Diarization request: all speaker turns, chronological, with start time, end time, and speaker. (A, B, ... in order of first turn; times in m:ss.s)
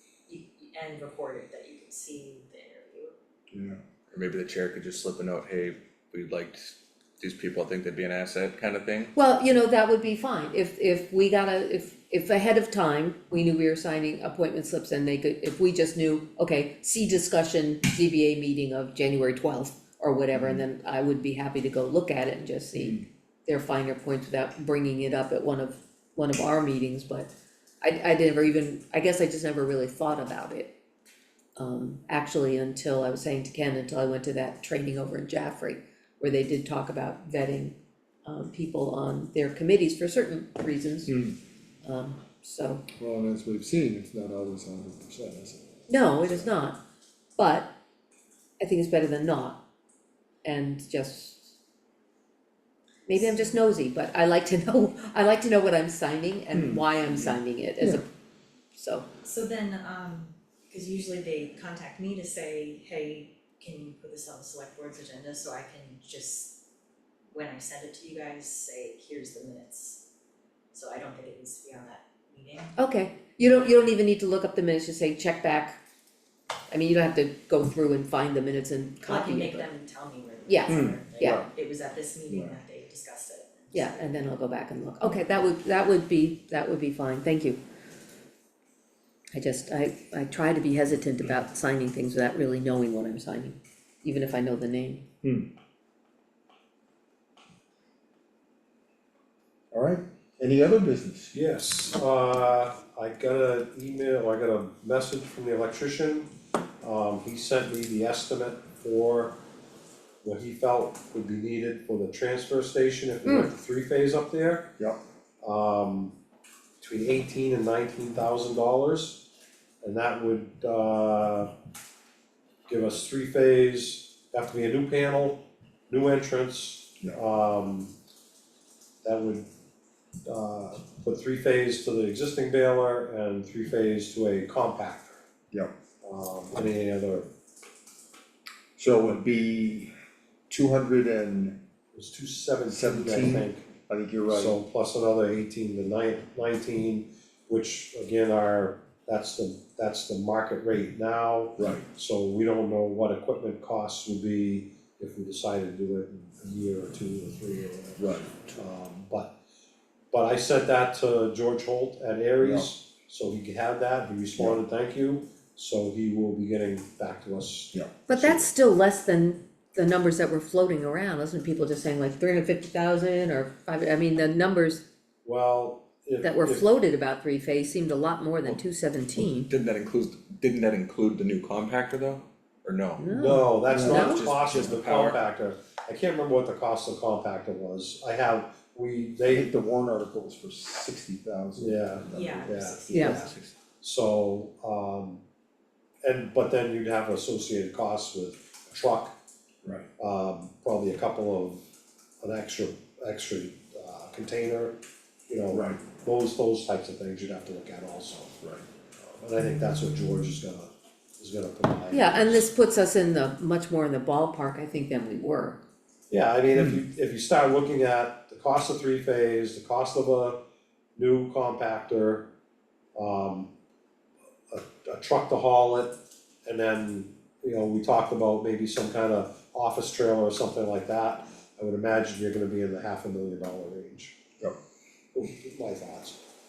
0:00.3-0:03.1 A
0:03.5-0:03.8 B
0:04.1-0:09.1 C
0:09.1-0:30.7 D
0:20.4-0:20.6 B
0:22.8-0:23.0 B
0:31.6-0:41.1 D
0:41.1-0:41.4 B
0:41.8-0:42.9 D
0:43.0-0:45.6 B
0:45.9-0:46.8 D
0:47.4-0:47.7 D
0:48.6-0:49.6 D
0:50.4-0:51.5 D
0:53.1-0:58.1 D
0:53.2-0:53.5 A
0:58.7-0:59.1 D
0:59.2-1:06.6 A
1:07.3-1:10.0 A
1:10.7-1:12.8 A
1:12.8-1:15.8 D
1:16.7-1:19.7 D
1:19.0-1:24.1 A
1:20.5-1:21.5 D
1:20.7-1:21.5 B
1:22.3-1:22.6 B
1:23.7-1:27.6 D
1:29.3-1:35.0 D
1:35.2-1:35.5 B
1:39.7-1:41.4 B
1:41.3-1:46.3 E
1:46.8-1:49.4 E
1:50.2-1:54.7 E
1:53.2-1:53.5 D
1:55.4-1:56.2 E
1:56.8-1:59.2 E
1:59.8-2:01.5 E
2:02.7-2:07.9 E
2:09.0-2:09.5 E
2:10.2-2:15.2 E
2:16.0-2:17.3 E
2:18.8-2:19.9 B
2:20.5-2:21.6 B
2:21.9-2:23.7 E
2:22.7-2:24.6 B
2:24.3-2:39.3 E
2:31.6-2:31.8 B
2:38.0-2:38.5 B
2:40.1-2:48.5 E
2:42.4-2:42.7 B
2:48.1-2:54.8 D
2:55.2-2:56.7 E
2:56.2-2:59.5 D
2:59.4-3:03.1 C
3:03.0-3:04.2 D
3:03.1-3:09.5 E
3:03.7-3:04.1 B
3:03.7-3:05.2 C
3:09.3-3:13.0 B
3:11.6-3:13.3 E
3:12.1-3:13.3 A
3:12.9-3:13.3 D
3:13.0-3:13.5 C
3:13.8-3:15.2 E
3:16.0-3:19.2 E
3:20.0-3:21.6 E
3:22.2-3:28.4 E
3:25.5-3:25.8 B
3:29.0-3:32.5 E
3:31.9-3:35.6 D
3:36.1-3:40.4 E
3:41.0-3:42.3 E
3:43.0-3:43.5 E
3:44.5-3:54.2 E
3:55.1-3:56.2 E